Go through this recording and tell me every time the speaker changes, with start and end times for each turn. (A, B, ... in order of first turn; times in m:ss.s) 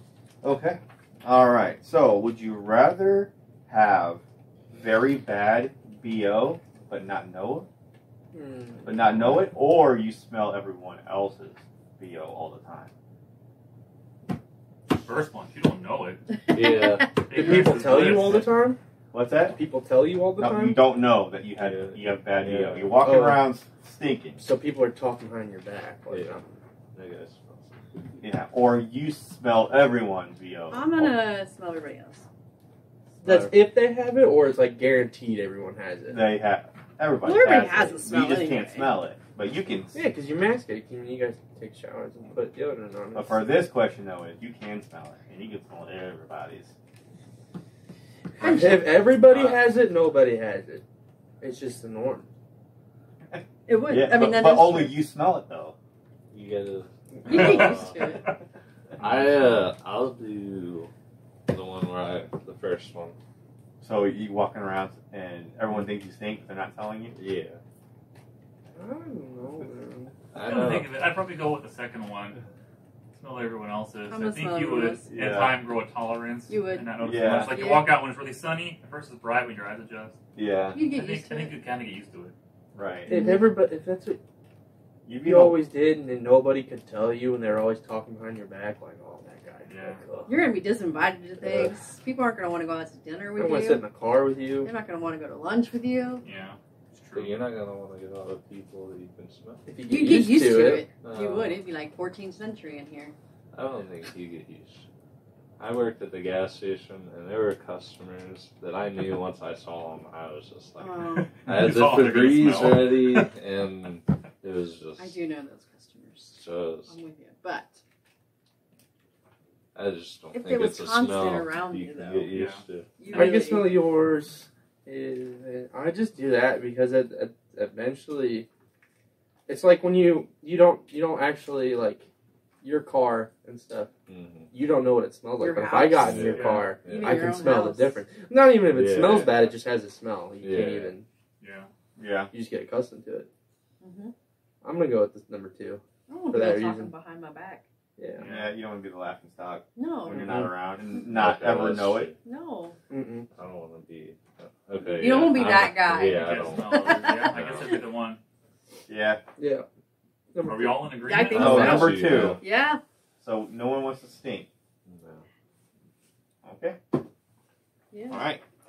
0:00.4-0:07.7 A
0:08.3-0:09.0 B
0:08.8-0:12.9 A
0:14.9-0:16.3 C
0:16.5-0:18.2 D
0:16.5-0:17.0 E
0:17.2-0:18.8 B
0:17.2-0:18.4 C
0:19.1-0:19.6 A
0:19.5-0:20.8 B
0:20.4-0:24.4 A
0:21.6-0:23.2 D
0:23.0-0:23.5 B
0:24.4-0:26.6 B
0:26.1-0:26.4 D
0:26.9-0:27.8 D
0:28.2-0:31.2 A
0:30.7-0:32.2 E
0:33.2-0:36.3 B
0:33.2-0:33.5 A
0:36.1-0:40.0 A
0:37.2-0:39.0 E
0:39.9-0:43.5 B
0:43.1-0:46.7 A
0:48.4-0:50.8 B
0:51.4-0:52.3 B
0:53.3-0:55.8 A
0:53.7-0:55.0 E
0:56.3-0:58.0 D
0:57.2-0:58.4 E
0:57.3-0:58.4 C
0:59.0-1:00.9 D
1:01.5-1:03.2 D
1:03.8-1:07.2 A
1:07.1-1:07.6 D
1:08.8-1:10.1 B
1:10.3-1:10.9 D
1:10.4-1:12.4 C
1:13.1-1:20.2 C
1:14.1-1:15.0 E
1:15.1-1:15.6 A
1:16.5-1:18.0 E
1:17.0-1:17.6 A
1:20.3-1:20.8 A
1:20.7-1:21.5 E
1:20.8-1:22.3 C
1:22.7-1:23.1 A
1:23.0-1:24.2 B
1:23.1-1:23.5 E
1:25.0-1:25.6 A
1:25.2-1:30.4 B
1:29.6-1:30.0 C
1:30.3-1:33.8 E
1:31.4-1:31.7 B
1:33.4-1:34.7 B
1:34.6-1:36.2 E
1:36.2-1:37.5 C
1:37.1-1:39.7 D
1:39.6-1:40.9 B
1:39.8-1:43.1 E
1:41.0-1:41.6 D
1:43.5-1:44.8 D
1:45.6-1:55.2 D
1:50.8-1:51.3 E
1:51.1-1:53.3 C
1:55.0-1:57.8 E
1:56.3-1:57.0 D
1:59.7-2:03.0 D
2:00.3-2:02.3 E
2:02.3-2:02.6 C
2:03.0-2:03.7 E
2:03.1-2:08.5 B
2:09.5-2:12.1 B
2:12.6-2:13.9 B
2:14.1-2:14.5 D
2:14.5-2:21.0 B
2:15.4-2:18.0 E
2:15.9-2:17.5 D
2:16.3-2:16.7 C
2:18.6-2:19.6 D
2:20.4-2:20.9 D
2:21.4-2:21.7 C
2:22.0-2:22.3 A
2:22.3-2:23.3 B
2:23.8-2:24.1 E
2:24.6-2:26.9 B
2:26.1-2:27.6 E
2:28.0-2:28.3 B
2:28.2-2:28.6 C
2:28.2-2:32.1 A
2:29.8-2:30.4 E
2:30.1-2:30.5 B
2:31.1-2:32.2 D
2:32.2-2:32.8 E
2:32.9-2:33.3 B
2:33.3-2:37.7 D
2:34.8-2:37.3 E
2:36.1-2:38.2 C
2:38.9-2:39.2 A
2:39.4-2:39.6 B
2:40.3-2:41.9 B
2:40.4-2:41.8 C
2:41.0-2:42.8 E
2:41.3-2:42.4 A
2:41.3-2:42.4 D
2:43.2-2:44.5 A
2:44.8-2:45.2 D
2:46.4-2:46.8 A
2:47.9-2:48.3 E
2:48.1-2:48.4 A